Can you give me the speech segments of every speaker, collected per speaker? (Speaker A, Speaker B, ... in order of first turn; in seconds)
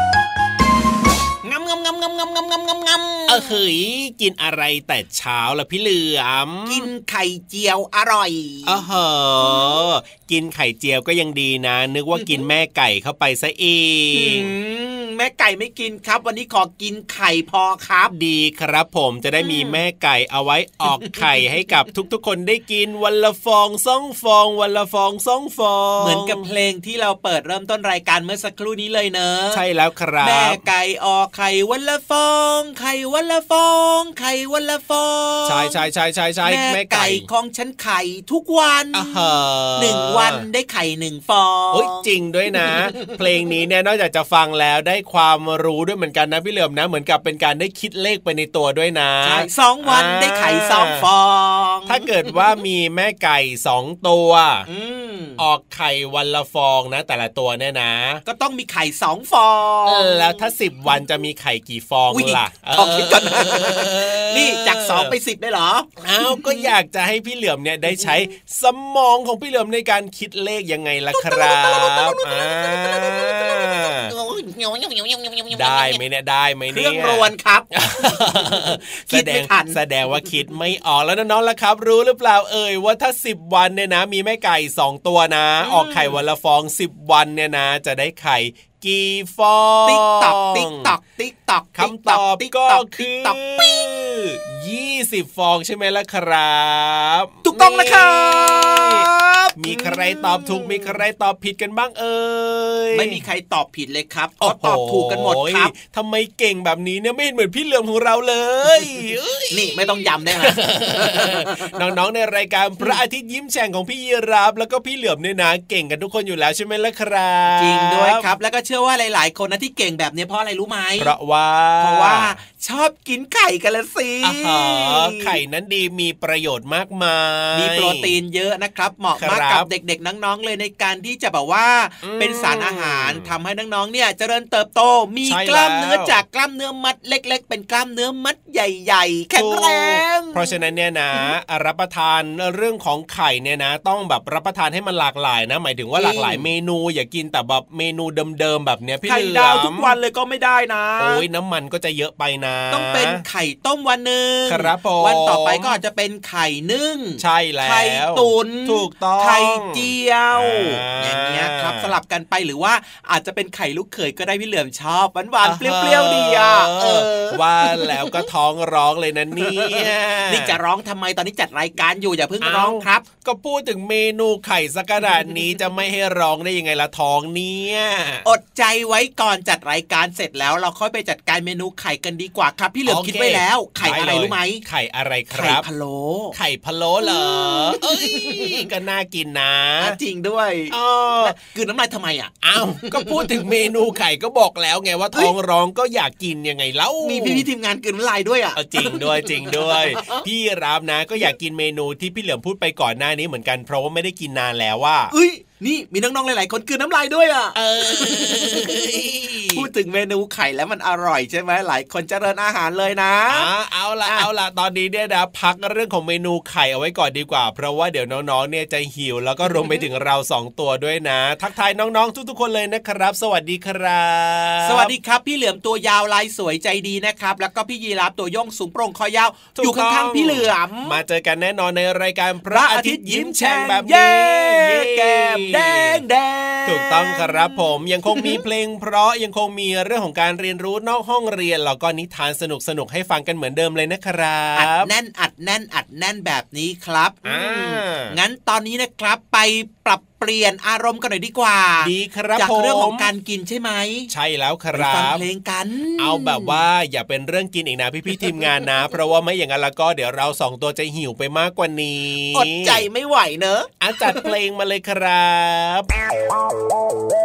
Speaker A: 1.4-3.5, 6.7-8.8, 9.4-9.8, 12.1-12.4, 14.1-18.1, 19.4-19.8, 26.0-29.6, 30.2-35.8, 36.4-39.2, 39.8-42.1, 49.2-52.1, 54.7-55.4, 58.2-60.3, 62.1-66.7, 71.1-76.0, 76.7-79.8, 85.6-86.2, 89.8-93.8, 97.4-101.0, 102.9-105.7, 109.5-111.8, 117.5-121.1, 121.8-125.4, 127.5-140.5, 145.9-146.5, 149.0-151.2, 152.7-168.2, 169.4-173.1, 178.2-184.6, 185.3-186.3, 187.0-188.7, 189.8-193.4, 197.0-200.2, 205.1-208.8, 209.5-213.5, 224.6-231.0, 232.4-238.4, 244.6-254.1, 254.7-256.6, 258.2-258.5, 262.3-264.3
Speaker B: 3.3-6.9, 8.7-14.5, 18.1-26.4, 29.5-30.6, 35.4-37.3, 38.9-40.4, 41.7-51.0, 51.9-54.6, 55.4-58.2, 59.9-65.1, 66.0-74.1, 75.5-90.9, 91.8-99.0, 99.6-103.2, 104.4-118.3, 121.0-122.3, 124.2-128.1, 129.2-129.7, 132.0-133.3, 135.2-136.2, 139.3-149.9, 151.0-153.2, 154.5-155.8, 157.2-161.9, 165.4-170.6, 172.4-178.2, 182.8-185.7, 186.3-190.0, 190.7-191.4, 192.4-197.4, 198.6-205.1, 207.6-209.7, 213.3-224.9, 229.6-236.0, 236.7-244.9, 247.2-248.1, 251.8-253.1, 254.1-255.2, 256.0-262.8, 263.8-265.9